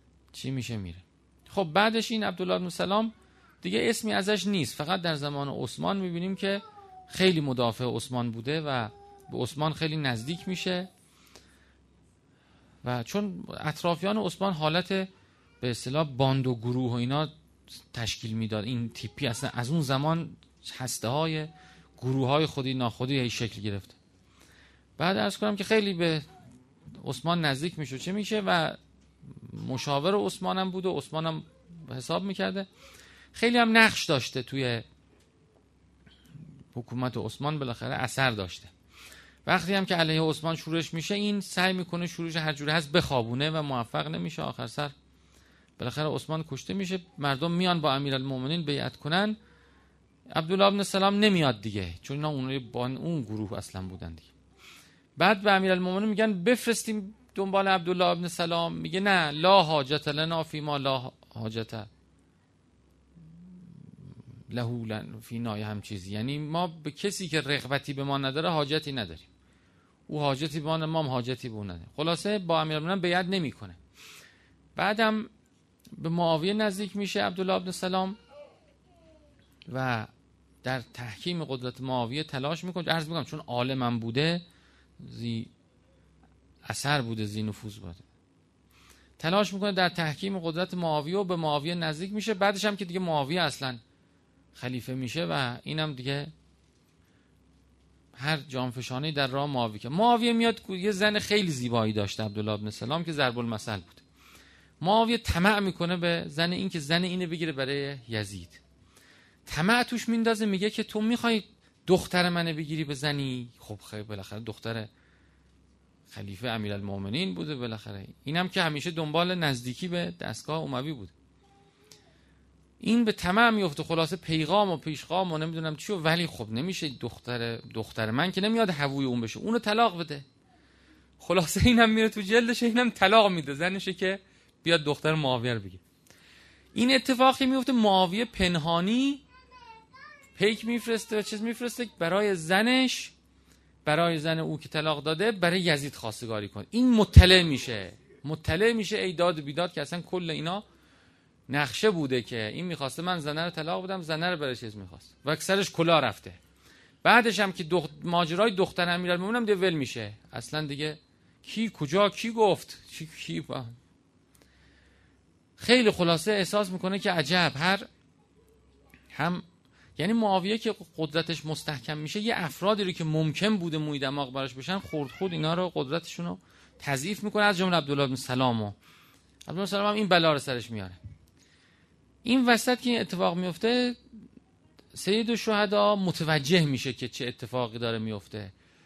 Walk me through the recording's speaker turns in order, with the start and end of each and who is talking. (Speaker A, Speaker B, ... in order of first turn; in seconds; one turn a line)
Speaker A: 0.3-10.9
Speaker A: 12.8-15.1
Speaker A: 15.6-17.3
Speaker A: 17.9-24.0
Speaker A: 25.0-26.2
Speaker A: 27.0-32.7
Speaker A: 33.3-34.9
Speaker A: 36.7-38.7
Speaker A: 39.5-44.9
Speaker A: 45.8-49.4
Speaker A: 50.4-54.3
Speaker A: 55.2-61.9
Speaker A: 64.5-69.3
Speaker A: 70.1-73.8
Speaker A: 74.8-75.3
Speaker A: 76.0-78.2
Speaker A: 79.7-80.1
Speaker A: 80.6-84.4
Speaker A: 85.0-85.5
Speaker A: 86.7-88.0
Speaker A: 89.2-93.8
Speaker A: 94.5-96.3
Speaker A: 98.2-104.0
Speaker A: 104.8-108.6
Speaker A: 109.5-114.9
Speaker A: 116.1-121.1
Speaker A: 122.8-130.3
Speaker A: 131.2-135.8
Speaker A: 136.7-139.2
Speaker A: 140.4-143.2
Speaker A: 143.8-150.7
Speaker A: 151.5-156.4
Speaker A: 157.0-163.7
Speaker A: 165.6-167.9
Speaker A: 169.1-169.4
Speaker A: 170.0-178.8
Speaker A: 179.5-181.0
Speaker A: 182.2-184.0
Speaker A: 184.9-188.5